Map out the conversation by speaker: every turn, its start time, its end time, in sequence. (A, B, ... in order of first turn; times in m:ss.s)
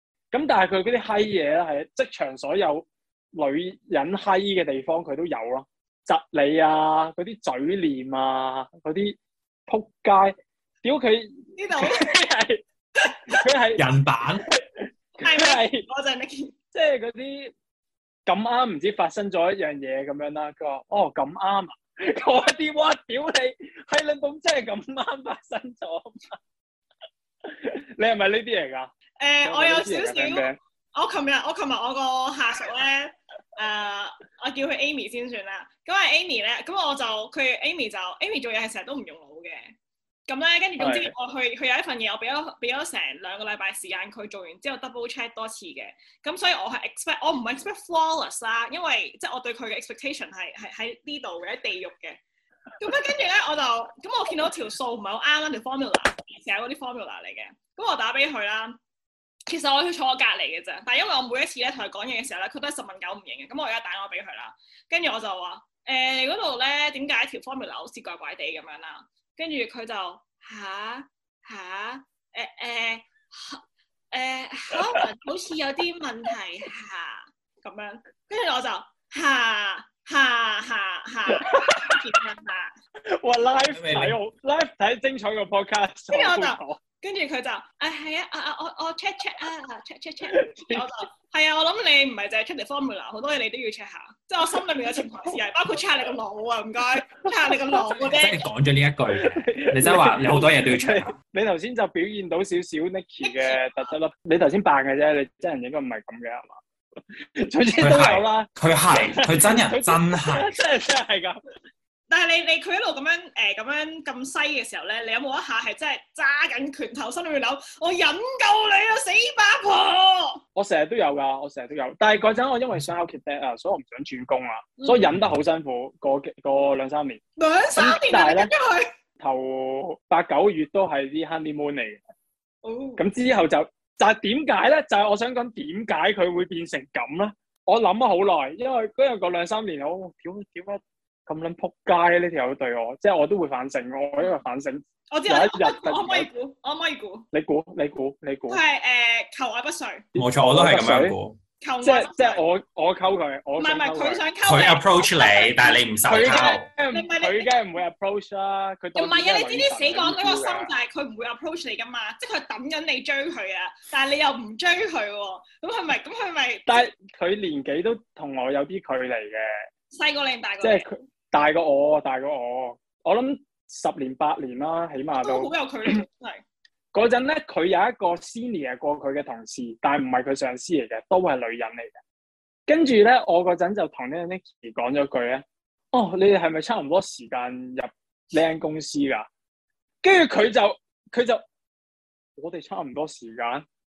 0:00.3-0:12.6 A
0:11.6-0:12.1 B
0:13.3-0:13.8 A
0:13.8-0:14.4 C
0:15.2-0:15.8 A
0:15.2-0:16.5 B
0:16.7-0:17.5 A
0:18.3-0:26.4 A
0:27.4-0:28.9 A
0:29.2-0:39.7 B
0:29.4-0:30.6 A
0:40.3-0:52.2 B
0:40.8-0:41.1 A
0:52.8-0:58.8 B
0:59.5-1:13.6 B
1:14.1-1:22.7 B
1:14.7-1:15.0 A
1:21.3-1:22.1 A
1:23.2-1:26.8 A
1:23.7-1:24.2 C
1:26.1-1:38.4 B
1:30.3-1:30.9 A
1:37.9-1:41.2 C
1:39.2-1:46.6 A
1:43.2-1:43.6 B
1:47.4-1:51.4 A
1:47.8-1:50.5 C
1:52.1-2:00.4 B
2:00.6-2:07.2 A
2:07.4-2:08.9 B
2:07.8-2:08.5 A
2:09.2-2:12.0 A
2:12.6-2:13.0 B
2:13.0-2:26.3 A
2:25.1-2:27.3 B
2:27.3-2:28.6 A
2:28.5-2:30.0 B
2:30.2-2:31.2 A
2:30.2-2:31.4 C
2:31.6-2:32.4 B
2:31.8-2:34.2 A
2:33.6-2:37.5 B
2:34.4-2:36.7 C
2:36.1-2:40.7 A
2:39.0-2:46.8 B
2:46.7-2:49.5 A
2:49.9-2:50.9 B
2:50.6-2:56.0 A
2:55.2-2:56.4 B
2:56.9-3:02.0 A
3:02.7-3:09.3 A
3:10.0-3:11.4 A
3:12.4-3:13.6 A